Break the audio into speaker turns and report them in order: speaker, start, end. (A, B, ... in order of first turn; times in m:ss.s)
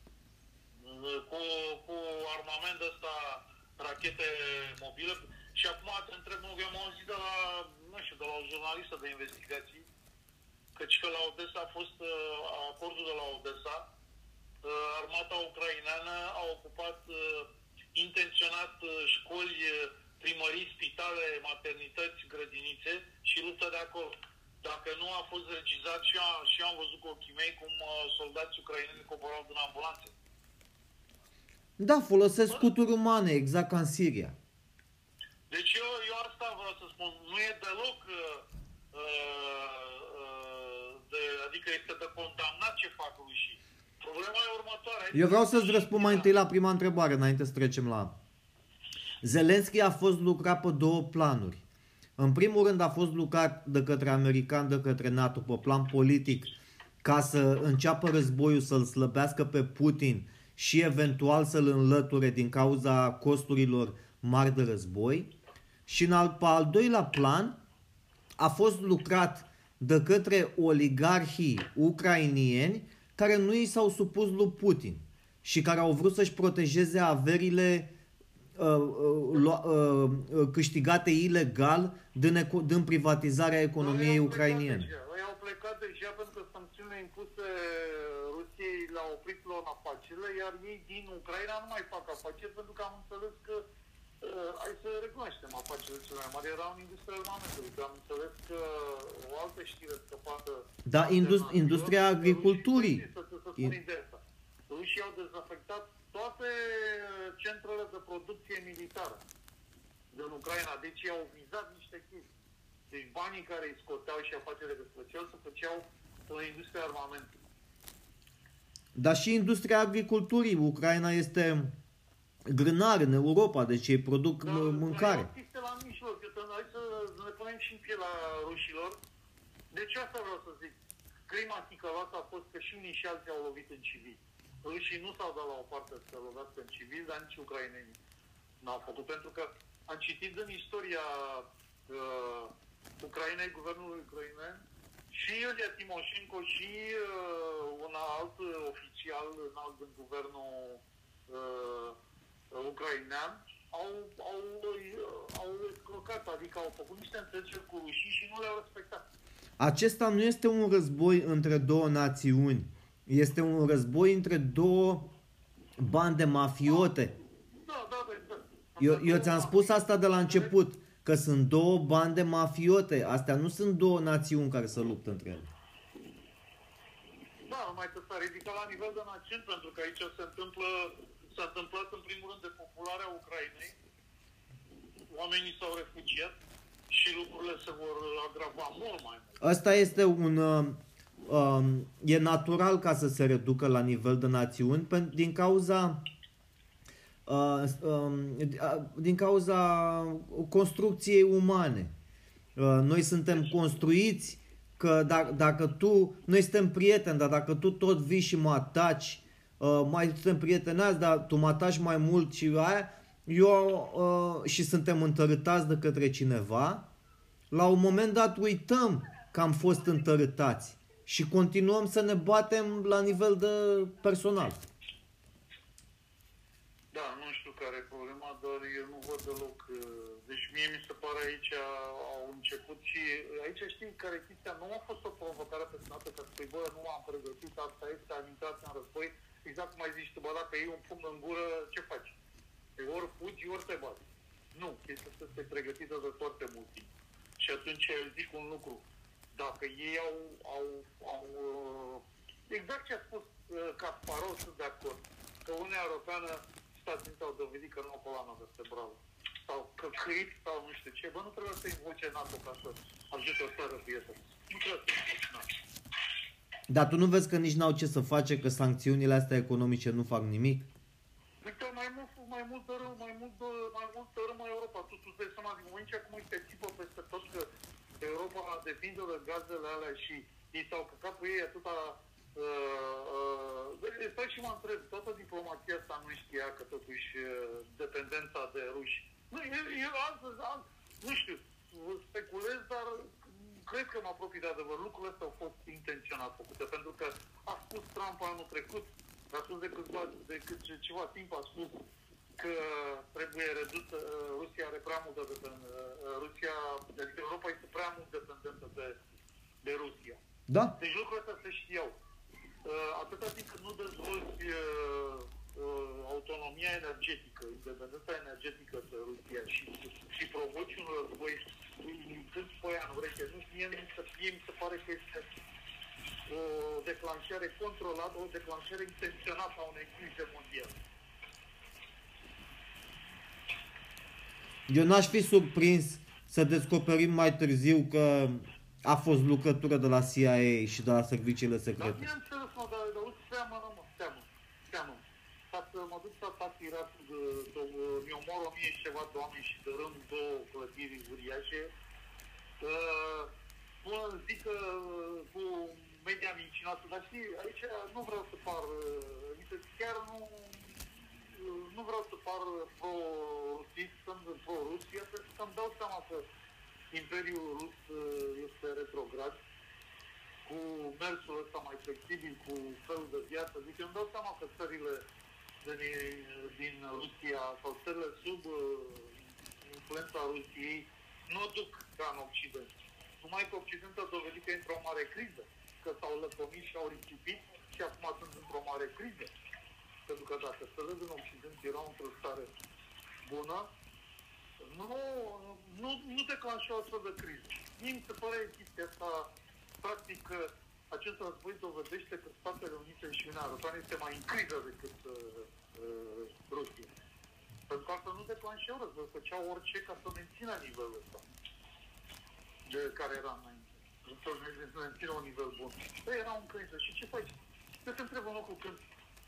0:00.8-0:09.9 A
0:10.8-0:13.9 A
0:14.6-0:30.1 A
0:31.8-0:34.4 B
0:35.5-0:46.3 A
0:45.1-0:48.1 B
0:49.2-0:51.6 B
0:52.2-0:56.5 B
0:57.0-1:05.3 B
1:05.9-1:07.6 B
1:08.4-1:17.9 B
1:18.6-1:24.9 B
1:23.8-1:33.6 A
1:34.2-1:49.2 A
1:40.8-1:43.0 B
1:50.1-1:52.3 A
1:52.9-1:57.3 A
1:58.9-2:01.7 B
2:02.4-2:05.3 B
2:04.4-2:09.0 A
2:09.7-2:10.8 A
2:11.3-2:18.0 A
2:18.6-2:32.0 A
2:32.5-2:39.0 A
2:39.6-2:45.1 B
2:45.8-2:47.1 B
2:47.5-2:50.5 A
2:48.8-2:55.5 B
2:57.4-3:03.8 A
3:05.1-3:06.3 A
3:06.9-3:09.4 A
3:09.4-3:16.0 B
3:17.2-3:21.9 B
3:22.6-3:36.9 B
3:37.5-3:44.6 B
3:46.9-4:02.2 A
4:02.8-4:04.0 A
4:04.5-4:06.9 A
4:07.4-4:08.8 A
4:09.3-4:25.5 A
4:26.7-4:30.7 B
4:31.4-4:37.5 A
4:38.0-5:01.8 A
5:02.4-5:09.0 A
5:09.6-5:10.2 A
5:10.5-5:10.7 B
5:10.8-5:11.9 A
5:12.6-5:25.3 A
5:26.3-5:30.7 A
5:34.7-5:42.0 B
5:41.8-5:51.7 A
5:52.6-5:53.3 A
5:53.8-6:06.3 A
6:06.9-6:09.4 A
6:10.4-6:15.0 A
6:15.6-6:29.3 A
6:30.1-6:32.5 A
6:33.2-6:33.7 A
6:34.6-6:39.3 A
6:39.8-6:46.9 A
6:47.7-6:51.2 A
6:52.6-6:58.8 A